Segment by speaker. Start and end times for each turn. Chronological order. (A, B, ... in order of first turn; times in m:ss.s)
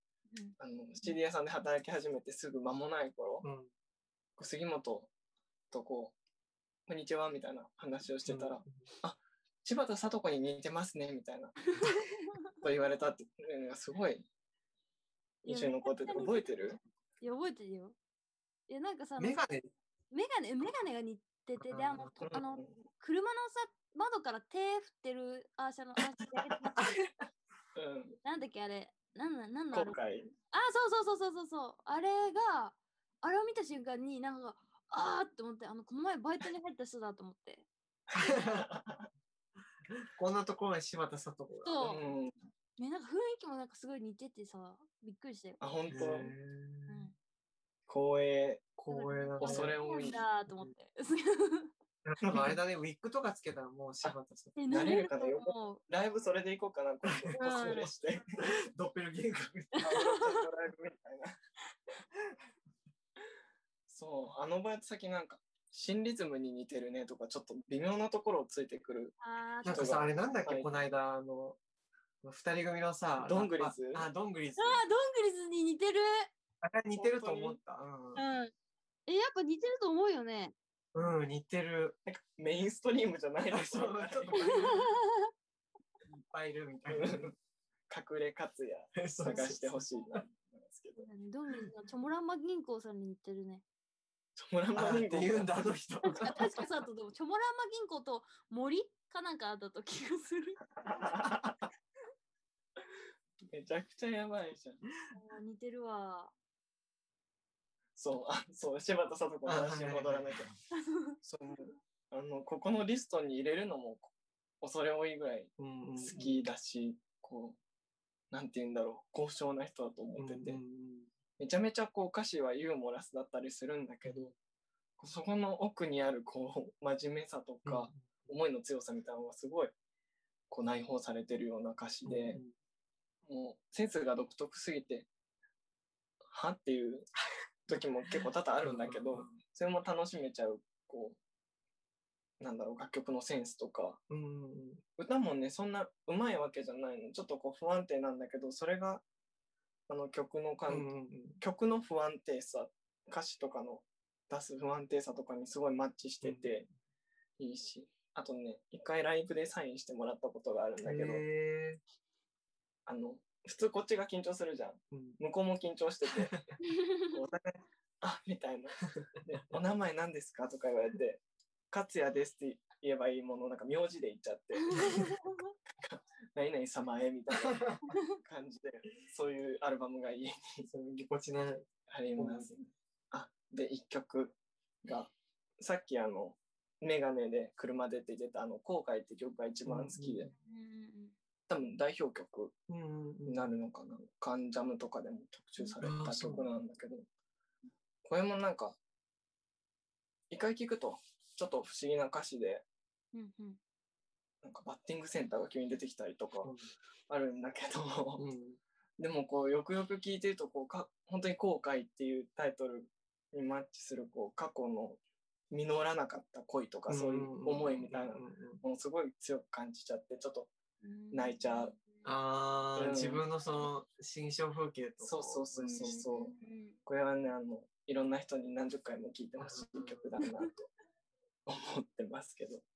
0:00.6-0:03.4 A
0:03.4-0:03.7 B
0:04.4-0:05.1 A
0:05.7-0:06.2 A
0:06.9-0:11.7 A
0:08.2-0:08.7 B
0:11.7-0:12.5 C
0:12.6-0:14.3 A
0:15.4-0:16.8 A
0:15.4-0:16.6 C
0:17.2-0:18.0 C
0:18.7-0:19.4 C
0:19.2-0:19.7 B
0:20.1-0:27.0 C
0:21.7-0:22.1 B
0:22.2-0:22.7 A
0:27.7-0:28.2 A
0:28.2-0:30.0 C
0:29.7-0:30.3 A
0:30.5-0:37.6 C
0:38.1-0:39.1 A
0:38.1-0:38.7 B
0:40.0-0:41.9 B
0:41.6-0:42.0 C
0:41.8-0:42.3 A
0:42.8-0:45.6 C
0:45.6-0:46.3 A
0:45.9-0:47.1 B
0:46.9-0:47.1 C
0:47.9-0:48.6 A
0:48.8-0:50.7 B
0:48.9-0:51.7 C
0:49.4-0:50.2 A
0:52.0-0:54.6 B
0:52.2-0:52.6 A
0:54.6-0:55.8 C
0:54.7-0:58.3 A
0:57.0-0:57.4 B
0:57.3-0:57.9 C
0:58.4-1:00.0 B
0:59.8-1:00.4 C
0:59.8-1:01.3 A
1:03.9-1:10.7 A
1:09.2-1:10.0 C
1:09.6-1:11.6 B
1:12.2-1:14.8 B
1:13.2-1:14.1 A
1:14.6-1:16.3 C
1:16.6-1:18.2 B
1:16.9-1:17.6 A
1:18.2-1:18.5 C
1:19.1-1:20.5 C
1:20.9-1:22.0 B
1:22.0-1:24.6 A
1:23.5-1:24.9 B
1:24.4-1:25.3 C
1:26.1-1:27.3 B
1:26.9-1:27.3 A
1:27.9-1:31.0 A
1:29.0-1:30.2 B
1:31.0-1:33.6 C
1:34.4-1:35.7 A
1:34.7-1:36.7 B
1:36.0-1:40.6 C
1:40.8-1:41.6 A
1:43.5-1:44.8 A
1:45.1-1:46.3 C
1:48.0-1:50.5 A
1:49.4-1:50.5 B
1:50.7-1:51.2 C
1:51.2-1:57.6 A
1:55.6-1:56.4 B
1:58.3-2:00.6 A
2:00.2-2:01.1 B
2:01.4-2:04.3 A
2:04.0-2:04.3 B
2:05.0-2:09.7 A
2:07.6-2:08.3 B
2:10.5-2:12.4 A
2:12.0-2:12.5 B
2:13.3-2:15.1 A
2:16.3-2:17.1 A
2:17.7-2:21.2 A
2:18.2-2:19.4 B
2:22.4-2:24.0 A
2:24.1-2:24.8 B
2:25.0-2:29.0 A
2:29.9-2:30.9 A
2:30.7-2:31.4 B
2:31.4-2:36.6 A
2:36.2-2:36.5 B
2:37.4-2:41.2 A
2:40.8-2:41.8 B
2:42.8-2:46.3 A
2:44.9-2:45.2 B
2:46.1-2:46.5 B
2:46.6-2:47.1 C
2:47.1-2:55.0 A
2:54.6-2:55.5 C
2:55.8-3:00.7 A
2:57.4-2:57.9 B
2:57.9-2:58.2 C
3:00.7-3:02.6 B
3:01.8-3:10.3 A
3:09.6-3:10.3 B
3:10.4-3:11.1 C
3:11.5-3:12.5 A
3:12.7-3:13.5 B
3:13.2-3:17.0 A
3:15.8-3:16.5 B
3:18.0-3:18.8 A
3:20.3-3:22.6 A
3:23.1-3:23.6 C
3:24.4-3:26.5 A
3:26.4-3:26.7 B
3:27.1-3:28.2 A
3:28.2-3:28.6 B
3:29.0-3:40.5 A
3:36.9-3:38.6 B
3:40.8-3:42.0 C
3:41.1-3:41.7 A
3:42.0-3:46.0 B
3:42.8-3:43.2 A
3:45.0-3:50.7 A
3:45.6-3:46.8 C
3:49.4-3:50.2 B
3:51.5-3:52.6 A